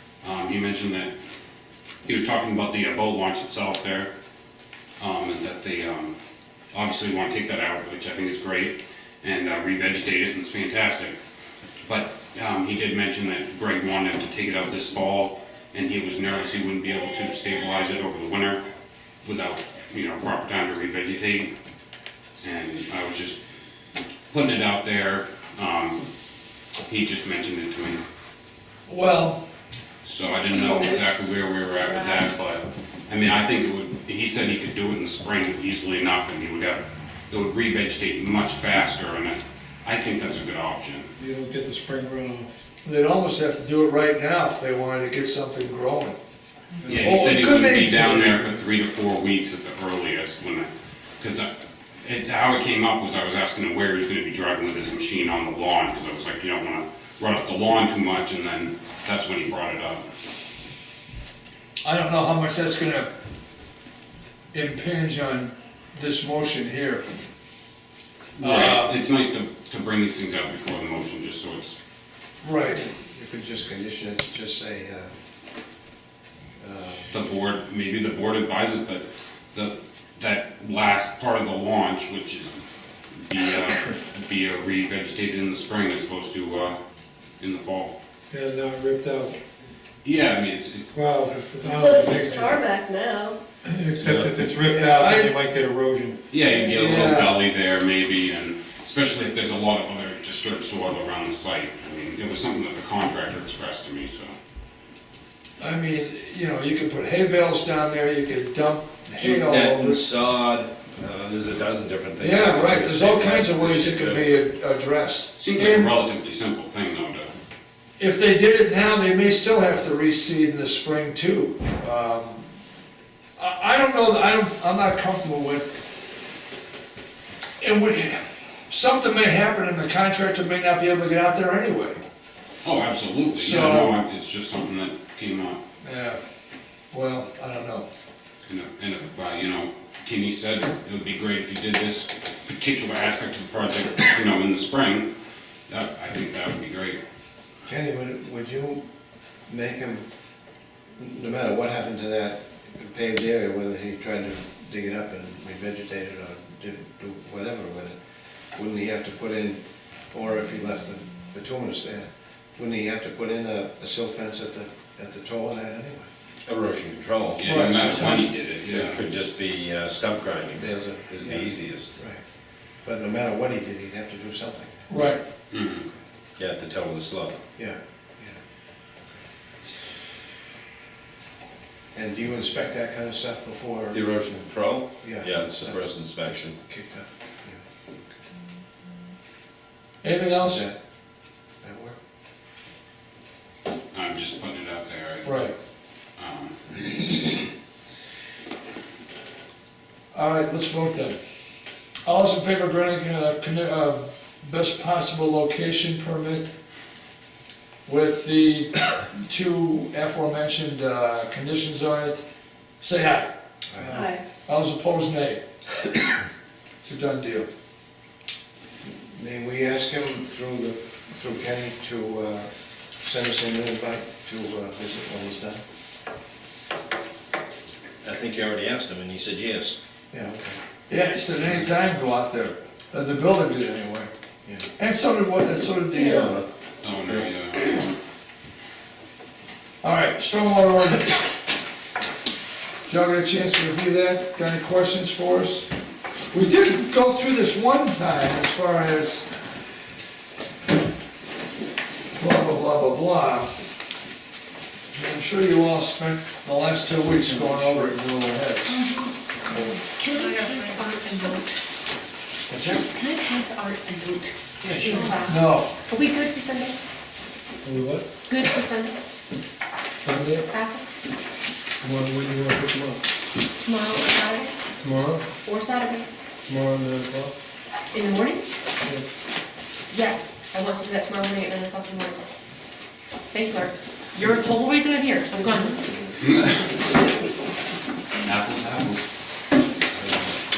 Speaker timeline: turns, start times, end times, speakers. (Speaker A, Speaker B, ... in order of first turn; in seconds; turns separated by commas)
Speaker A: 0.2-1.1, Speaker A: 2.0-4.1, Speaker A: 5.0-6.1, Speaker A: 6.7-11.2, Speaker A: 11.8-18.6, Speaker A: 19.2-21.5, Speaker A: 22.4-23.4, Speaker A: 24.3-26.0, Speaker A: 26.9-28.0, Speaker B: 28.9-29.4, Speaker A: 30.0-41.1, Speaker C: 30.4-31.3, Speaker C: 31.8-32.4, Speaker D: 41.2-42.6, Speaker B: 42.8-46.2, Speaker D: 46.8-47.1, Speaker A: 46.9-50.7, Speaker B: 46.9-48.5, Speaker A: 51.2-51.5, Speaker A: 52.0-60.0, Speaker B: 61.8-63.1, Speaker B: 64.5-67.0, Speaker A: 68.4-71.8, Speaker B: 68.4-69.0, Speaker B: 72.4-72.9, Speaker E: 72.9-75.1, Speaker E: 76.6-77.1, Speaker A: 77.1-82.6, Speaker A: 83.2-86.8, Speaker A: 87.4-87.9, Speaker D: 88.3-89.4, Speaker A: 90.0-90.9, Speaker D: 90.9-92.6, Speaker C: 91.6-93.4, Speaker D: 93.6-96.2, Speaker F: 94.0-94.3, Speaker B: 94.6-95.3, Speaker A: 96.3-104.3, Speaker B: 96.5-97.3, Speaker B: 105.6-110.0, Speaker F: 109.2-114.2, Speaker B: 112.2-115.9, Speaker A: 115.4-117.3, Speaker B: 118.0-122.5, Speaker B: 123.4-125.8, Speaker B: 127.6-132.0, Speaker A: 132.6-135.6, Speaker B: 133.3-134.0, Speaker B: 135.8-136.2, Speaker B: 136.9-137.8, Speaker A: 138.5-145.1, Speaker A: 145.7-147.0, Speaker E: 147.7-148.8, Speaker E: 149.5-150.0, Speaker E: 150.9-158.0, Speaker E: 158.5-159.6, Speaker E: 160.1-166.1, Speaker F: 166.4-172.0, Speaker A: 167.3-169.0, Speaker B: 167.4-168.3, Speaker E: 170.6-172.2, Speaker E: 172.8-174.9, Speaker B: 174.9-175.2, Speaker A: 175.5-175.9, Speaker F: 176.4-177.4, Speaker E: 177.6-178.4, Speaker E: 181.9-184.4, Speaker F: 183.9-186.6, Speaker E: 185.0-185.7, Speaker E: 186.7-187.6, Speaker B: 190.0-190.7, Speaker E: 190.4-190.8, Speaker E: 191.6-191.9, Speaker A: 193.9-195.4, Speaker B: 195.2-195.5, Speaker A: 196.2-197.1, Speaker B: 200.1-201.2, Speaker B: 202.1-206.5, Speaker B: 207.8-212.2, Speaker B: 212.8-215.4, Speaker C: 213.9-214.2, Speaker B: 216.8-217.5, Speaker E: 218.8-225.6, Speaker F: 228.0-229.8, Speaker E: 230.1-230.6, Speaker B: 230.9-234.1, Speaker B: 234.8-236.3, Speaker F: 236.0-236.4, Speaker A: 236.8-237.9, Speaker F: 237.0-237.3, Speaker B: 239.8-241.2, Speaker B: 242.9-245.7, Speaker B: 246.3-249.2, Speaker B: 252.2-253.5, Speaker B: 254.9-258.9, Speaker G: 258.7-261.6, Speaker B: 262.5-262.8, Speaker G: 262.8-266.7, Speaker B: 265.2-265.7, Speaker D: 267.6-268.1, Speaker G: 268.2-269.0, Speaker D: 269.9-270.4, Speaker G: 270.5-271.0, Speaker D: 271.8-273.0, Speaker G: 273.6-274.6, Speaker D: 274.8-275.2, Speaker G: 275.4-276.1, Speaker D: 276.5-277.3, Speaker G: 277.9-278.4, Speaker G: 279.9-282.2, Speaker G: 283.3-285.9, Speaker A: 286.2-286.6, Speaker A: 288.2-289.1